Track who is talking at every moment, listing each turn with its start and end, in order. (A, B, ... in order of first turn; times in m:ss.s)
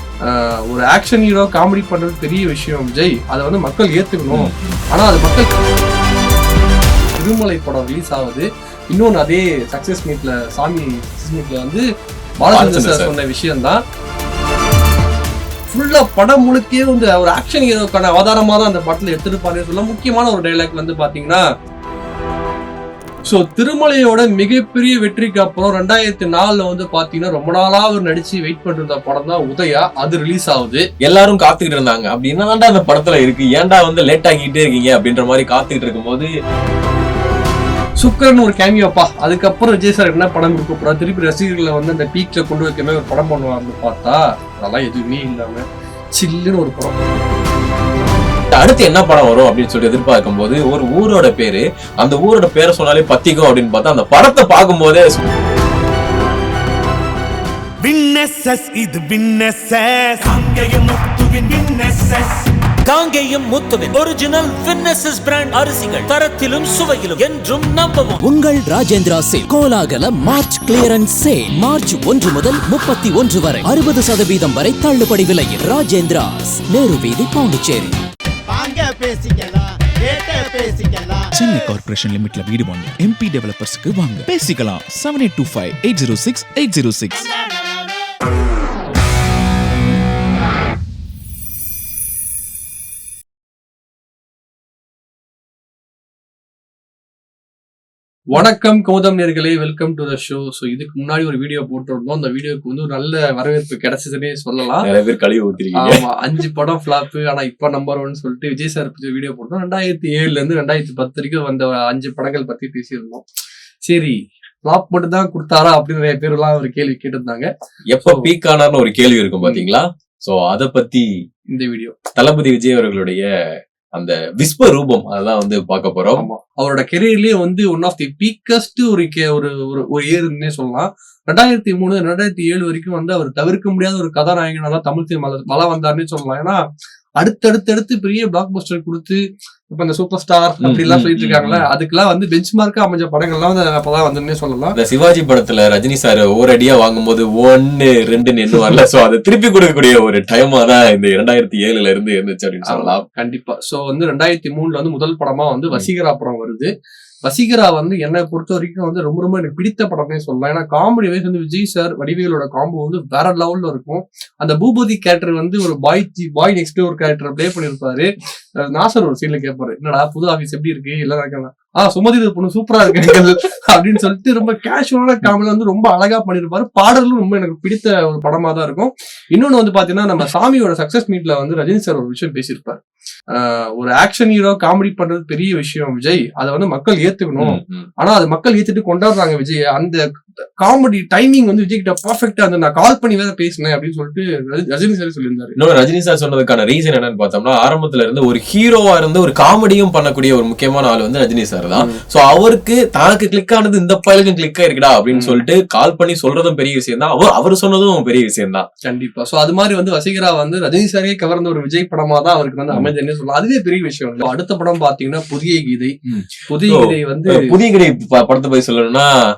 0:00.2-0:05.5 A
0:04.3-0:04.7 B
0:07.2-0:11.9 A
0:12.4-0:13.8 A
0:12.5-0:13.1 B
0:15.7-0:21.4 A
0:23.3-0:30.8 A
0:31.0-0:36.3 B
0:38.0-0:45.6 A
0:46.2-0:47.0 A
0:48.5-0:55.3 B
0:57.8-1:02.5 C
1:02.9-1:08.2 D
1:08.2-1:18.0 E
1:18.5-1:21.7 F
1:21.4-1:27.3 G
1:27.2-1:27.9 F
1:38.3-1:44.9 A
1:44.8-1:46.0 B
1:45.8-1:53.2 A
1:53.9-1:57.5 A
1:57.9-2:01.1 B
1:58.0-1:58.3 A
2:01.5-2:01.9 A
2:02.2-2:03.2 B
2:03.9-2:06.3 B
2:06.2-2:16.6 A
2:17.2-2:24.8 A
2:20.6-2:21.7 B
2:24.8-2:33.0 B
2:32.7-2:36.7 A
2:37.2-2:48.1 A
2:48.6-3:02.8 A
3:03.3-3:10.0 A
3:07.4-3:07.9 B
3:10.6-3:15.6 A
3:15.6-3:28.7 B
3:21.8-3:22.0 A
3:25.1-3:25.4 A
3:28.8-3:35.9 A
3:36.1-3:39.1 B
3:36.5-3:37.5 A